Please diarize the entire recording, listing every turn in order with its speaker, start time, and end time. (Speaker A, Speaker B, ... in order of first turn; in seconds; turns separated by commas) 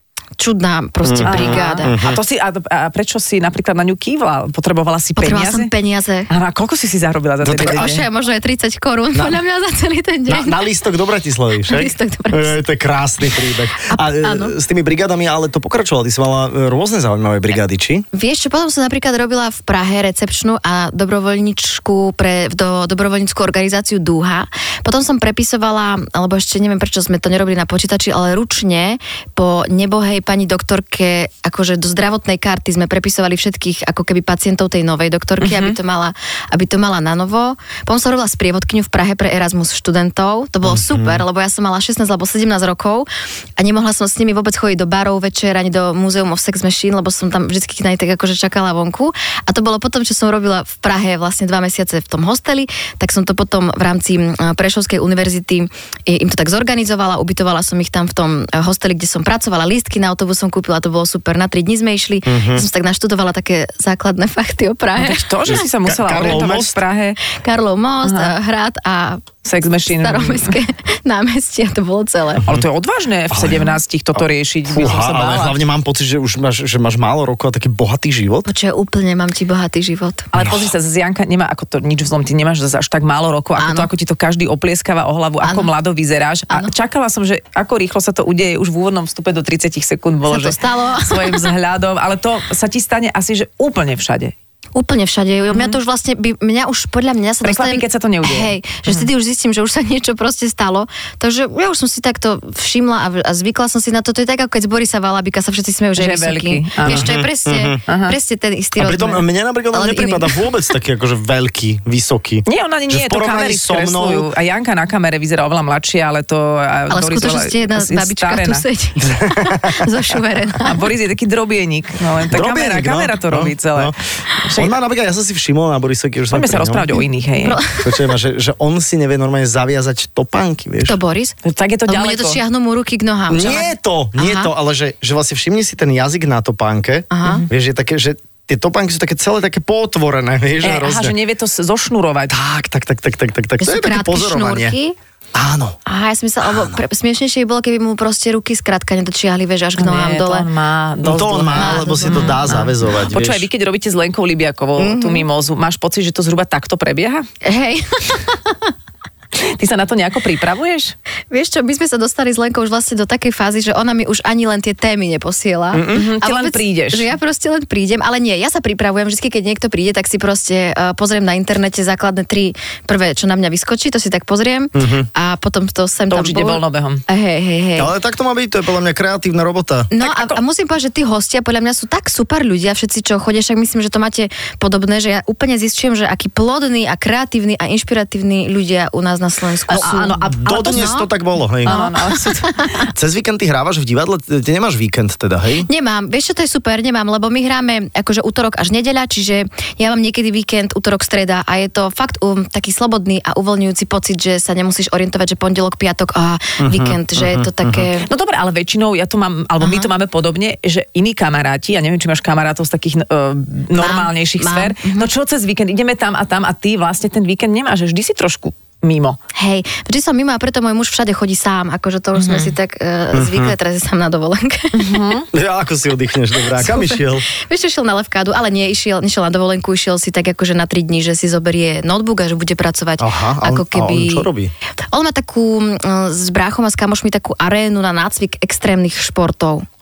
Speaker A: 0.4-2.0, Speaker B: 1.0-2.2, Speaker C: 1.2-5.7, Speaker A: 5.2-6.3, Speaker C: 6.3-8.1, Speaker B: 7.4-7.9, Speaker A: 7.5-10.7, Speaker B: 10.3-18.1, Speaker A: 11.7-12.6, Speaker A: 13.7-14.6, Speaker A: 18.1-65.3, Speaker C: 35.4-35.8, Speaker B: 40.6-41.2, Speaker B: 62.3-62.6, Speaker C: 65.0-67.2, Speaker B: 65.5-66.8, Speaker A: 67.3-69.3, Speaker C: 68.0-68.3, Speaker C: 69.4-70.6, Speaker A: 69.9-72.5, Speaker C: 72.5-75.6, Speaker B: 73.3-78.5, Speaker A: 78.5-80.3, Speaker C: 80.3-94.3, Speaker B: 80.4-80.7, Speaker A: 83.6-83.9, Speaker A: 85.4-85.7, Speaker A: 90.3-91.5, Speaker A: 94.8-110.4, Speaker C: 95.5-95.8, Speaker C: 97.4-99.1, Speaker C: 106.0-107.2, Speaker B: 106.9-107.8, Speaker C: 107.9-108.2, Speaker B: 108.8-114.3, Speaker C: 112.5-118.6, Speaker A: 116.9-120.9, Speaker B: 119.0-119.8, Speaker C: 120.6-123.9, Speaker B: 122.3-124.0, Speaker C: 124.4-124.7, Speaker B: 124.5-126.8, Speaker C: 126.3-127.6, Speaker A: 127.4-128.1, Speaker B: 127.8-131.0, Speaker A: 130.8-134.5, Speaker C: 131.4-132.4, Speaker B: 133.3-141.1, Speaker A: 137.1-137.5, Speaker C: 140.6-142.3, Speaker B: 142.3-144.8, Speaker A: 143.6-145.0, Speaker B: 145.3-145.8, Speaker A: 145.9-150.5, Speaker B: 146.5-146.8, Speaker C: 149.8-157.3, Speaker B: 151.0-153.5, Speaker A: 151.5-152.6, Speaker A: 154.8-155.3, Speaker A: 157.4-158.7, Speaker C: 159.4-160.9, Speaker A: 161.3-177.9, Speaker B: 165.7-166.1, Speaker C: 165.9-167.1, Speaker B: 174.8-175.1, Speaker C: 176.1-177.0, Speaker B: 177.8-179.9, Speaker A: 179.9-191.1, Speaker C: 180.0-180.4, Speaker C: 189.7-191.0, Speaker B: 189.7-191.8, Speaker C: 191.6-192.7, Speaker A: 191.7-192.9, Speaker B: 192.9-195.7, Speaker A: 195.7-208.1, Speaker B: 206.6-207.9, Speaker C: 208.0-219.2, Speaker A: 209.6-209.9, Speaker A: 213.7-215.1, Speaker A: 219.4-225.2, Speaker C: 222.2-222.5, Speaker B: 223.1-223.5, Speaker C: 224.7-225.3, Speaker B: 225.3-227.3, Speaker A: 226.4-234.3, Speaker B: 233.0-234.5, Speaker A: 234.9-239.7